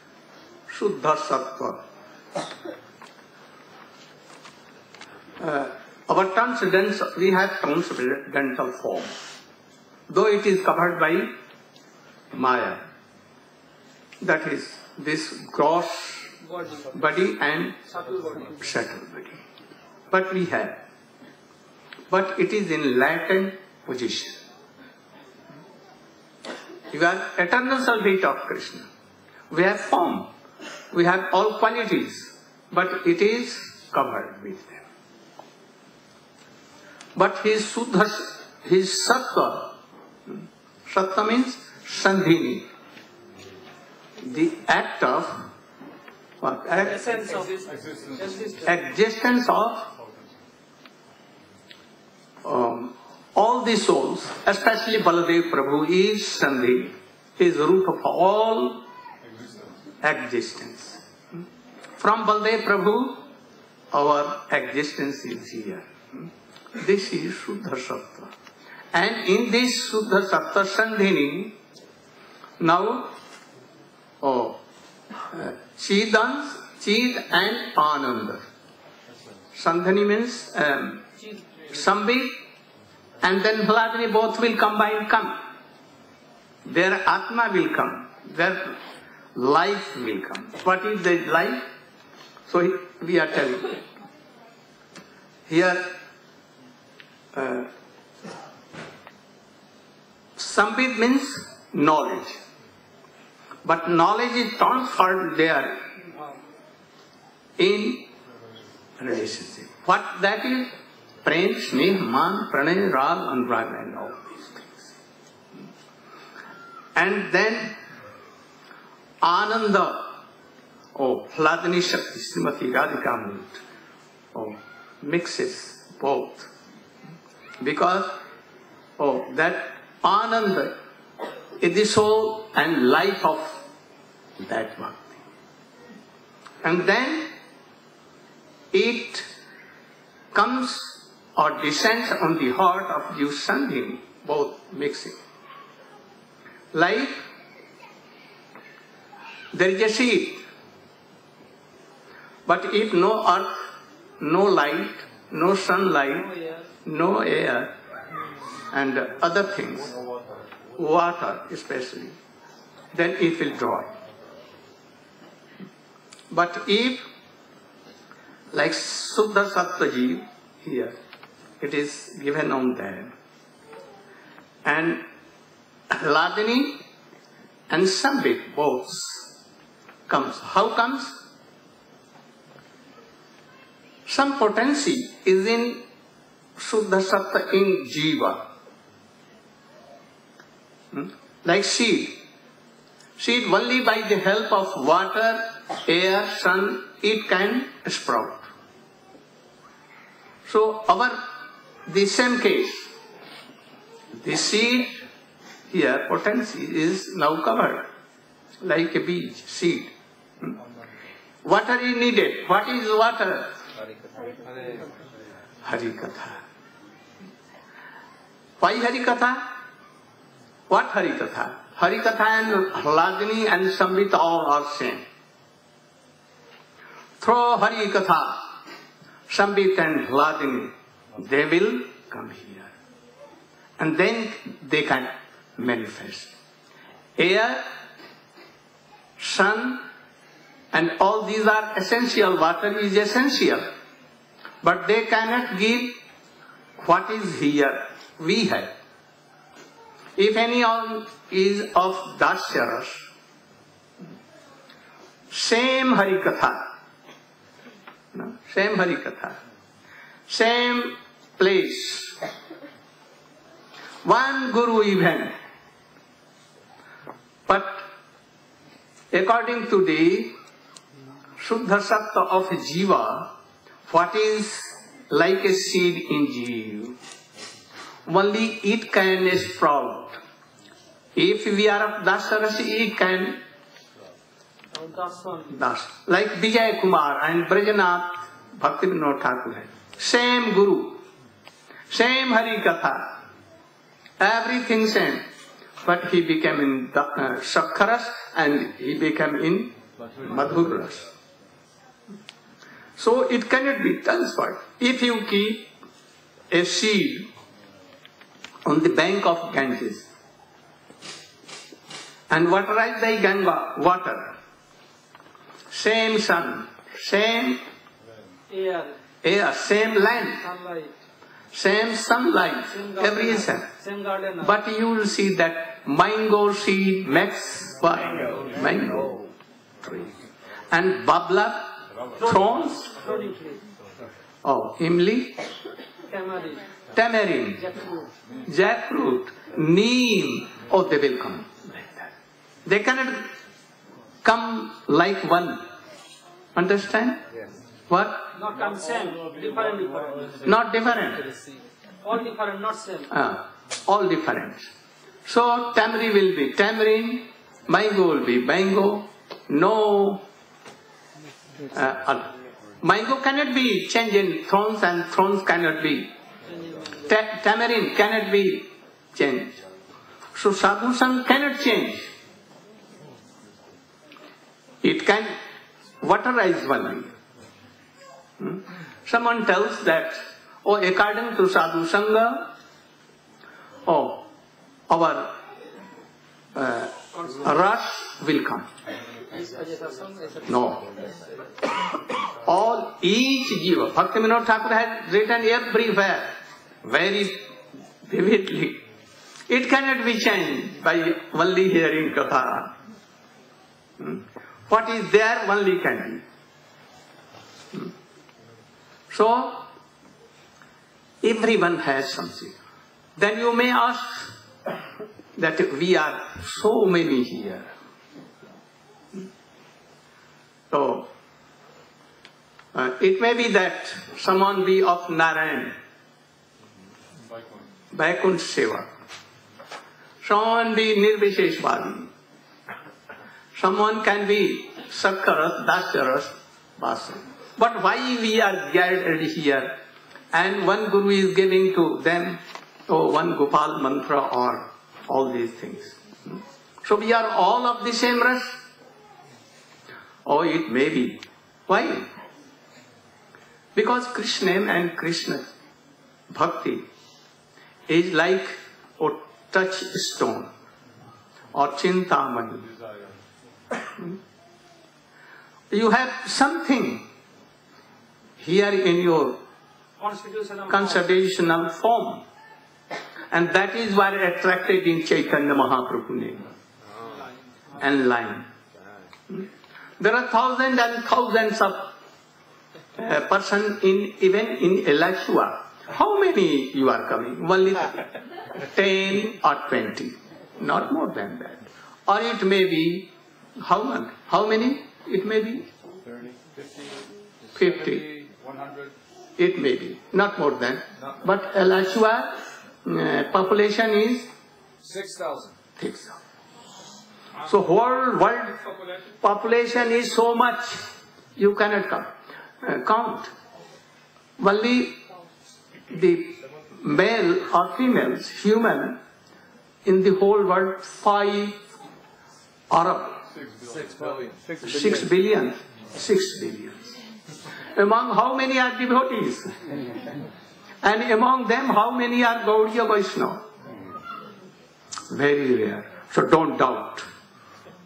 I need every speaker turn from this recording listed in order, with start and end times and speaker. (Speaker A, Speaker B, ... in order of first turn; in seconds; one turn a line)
Speaker A: 0.7-1.8
Speaker A: 5.4-9.1
Speaker A: 10.1-11.3
Speaker A: 12.3-12.8
Speaker A: 14.2-16.3
Speaker B: 16.4-16.9
Speaker A: 16.9-17.8
Speaker B: 17.9-18.6
Speaker A: 18.6-19.4
Speaker A: 20.1-20.8
Speaker A: 22.1-24.4
Speaker A: 26.9-28.9
Speaker A: 29.5-30.3
Speaker A: 30.9-34.8
Speaker A: 37.1-39.7
Speaker A: 40.9-42.7
Speaker A: 44.2-45.4
Speaker A: 46.4-47.1
Speaker B: 46.8-48.6
Speaker C: 47.7-48.1
Speaker A: 48.6-49.9
Speaker A: 52.4-58.8
Speaker A: 60.0-61.4
Speaker A: 62.0-63.2
Speaker A: 63.9-68.3
Speaker A: 68.9-71.5
Speaker A: 72.6-73.1
Speaker A: 74.2-74.6
Speaker A: 75.3-78.4
Speaker A: 79.5-81.0
Speaker A: 81.7-82.4
Speaker A: 83.2-85.4
Speaker A: 86.7-88.7
Speaker A: 89.3-91.7
Speaker A: 92.5-93.8
Speaker A: 95.5-95.9
Speaker A: 97.3-97.7
Speaker A: 100.4-102.4
Speaker A: 103.6-105.8
Speaker A: 107.6-108.1
Speaker A: 109.0-110.7
Speaker A: 111.2-114.9
Speaker A: 116.9-117.8
Speaker A: 119.2-120.1
Speaker A: 120.9-123.6
Speaker A: 124.3-126.5
Speaker A: 127.6-128.1
Speaker A: 129.0-130.8
Speaker A: 131.6-133.6
Speaker A: 134.4-135.2
Speaker A: 136.6-137.3
Speaker A: 138.7-139.2
Speaker A: 140.3-145.2
Speaker A: 146.7-147.2
Speaker A: 149.5-150.4
Speaker A: 152.4-153.6
Speaker A: 154.2-156.3
Speaker B: 156.2-156.7
Speaker A: 156.8-157.7
Speaker A: 158.7-159.9
Speaker A: 160.8-162.2
Speaker A: 162.9-163.9
Speaker A: 166.3-167.0
Speaker A: 168.5-170.9
Speaker A: 171.6-173.1
Speaker A: 174.6-175.0
Speaker A: 175.9-176.8
Speaker A: 177.7-179.3
Speaker A: 180.1-181.2
Speaker A: 184.1-185.8
Speaker A: 186.6-188.4
Speaker A: 190.9-192.2
Speaker A: 193.2-198.5
Speaker A: 200.4-201.2
Speaker A: 201.9-202.9
Speaker A: 204.2-205.0
Speaker A: 205.7-207.9
Speaker A: 208.6-210.5
Speaker A: 211.4-213.5
Speaker A: 215.6-216.4
Speaker A: 218.6-219.5
Speaker A: 220.7-225.0
Speaker A: 227.2-228.4
Speaker A: 229.3-232.7
Speaker A: 233.8-236.3
Speaker A: 237.2-237.6
Speaker A: 239.2-239.8
Speaker A: 240.7-243.7
Speaker A: 244.6-246.0
Speaker A: 246.8-248.7
Speaker A: 250.2-253.1
Speaker A: 255.3-256.7
Speaker A: 258.1-259.4
Speaker A: 260.3-262.1
Speaker A: 264.0-265.3
Speaker A: 267.5-267.8
Speaker A: 269.1-270.3
Speaker A: 271.4-273.3
Speaker A: 273.9-276.9
Speaker A: 278.1-280.2
Speaker A: 281.1-283.4
Speaker B: 284.7-285.6
Speaker A: 285.5-291.0
Speaker A: 291.9-293.1
Speaker A: 294.2-295.2
Speaker A: 295.8-301.0
Speaker A: 303.0-305.7
Speaker A: 306.5-307.3
Speaker A: 308.6-310.1
Speaker A: 312.3-314.3
Speaker A: 315.7-317.6
Speaker B: 318.5-318.9
Speaker A: 319.2-320.4
Speaker B: 320.4-320.9
Speaker A: 321.5-323.7
Speaker B: 322.7-324.5
Speaker A: 324.4-329.2
Speaker A: 329.8-330.1
Speaker A: 330.7-332.9
Speaker B: 332.9-333.6
Speaker A: 334.4-335.4
Speaker B: 336.1-336.7
Speaker A: 336.9-337.6
Speaker B: 337.6-338.1
Speaker A: 338.5-342.1
Speaker A: 342.6-343.3
Speaker A: 344.2-345.6
Speaker A: 346.5-347.2
Speaker A: 347.9-348.3
Speaker B: 348.3-350.5
Speaker C: 348.9-350.4
Speaker A: 350.4-351.2
Speaker B: 351.1-353.1
Speaker A: 353.1-354.7
Speaker A: 355.2-360.2
Speaker A: 361.7-362.3
Speaker A: 362.8-366.1
Speaker B: 366.5-367.0
Speaker A: 367.1-369.6
Speaker A: 370.4-372.1
Speaker A: 374.8-375.3
Speaker A: 376.0-377.1
Speaker A: 378.4-382.5
Speaker A: 383.9-384.2
Speaker A: 384.9-385.3
Speaker A: 386.5-388.6
Speaker B: 387.1-387.4
Speaker B: 389.3-390.7
Speaker A: 390.5-390.8
Speaker A: 392.4-397.5
Speaker A: 398.1-398.8
Speaker A: 399.5-402.7
Speaker A: 404.0-406.2
Speaker A: 409.1-409.7
Speaker A: 411.2-412.6
Speaker A: 413.2-414.3
Speaker A: 415.4-417.7
Speaker A: 420.7-421.1
Speaker A: 422.7-425.8
Speaker A: 427.9-428.9
Speaker A: 430.2-432.1
Speaker A: 433.6-439.8
Speaker A: 440.3-448.6
Speaker A: 450.2-452.1
Speaker A: 453.7-455.5
Speaker A: 456.3-456.8
Speaker A: 457.9-460.5
Speaker A: 461.5-462.6
Speaker A: 465.7-467.0
Speaker A: 468.4-469.4
Speaker B: 470.0-471.1
Speaker A: 470.7-472.2
Speaker A: 473.3-476.4
Speaker A: 477.8-478.5
Speaker A: 480.0-481.9
Speaker A: 483.0-488.0
Speaker A: 488.7-495.7
Speaker C: 496.1-497.0
Speaker C: 497.5-498.9
Speaker A: 497.5-498.1
Speaker A: 499.4-504.3
Speaker C: 504.8-505.6
Speaker A: 505.8-506.1
Speaker A: 507.4-510.8
Speaker A: 511.4-513.3
Speaker A: 514.4-515.0
Speaker A: 515.9-519.0
Speaker A: 519.8-521.6
Speaker A: 522.7-523.2
Speaker C: 523.3-525.1
Speaker A: 524.6-527.0
Speaker A: 527.8-529.5
Speaker A: 530.8-533.4
Speaker A: 535.1-537.0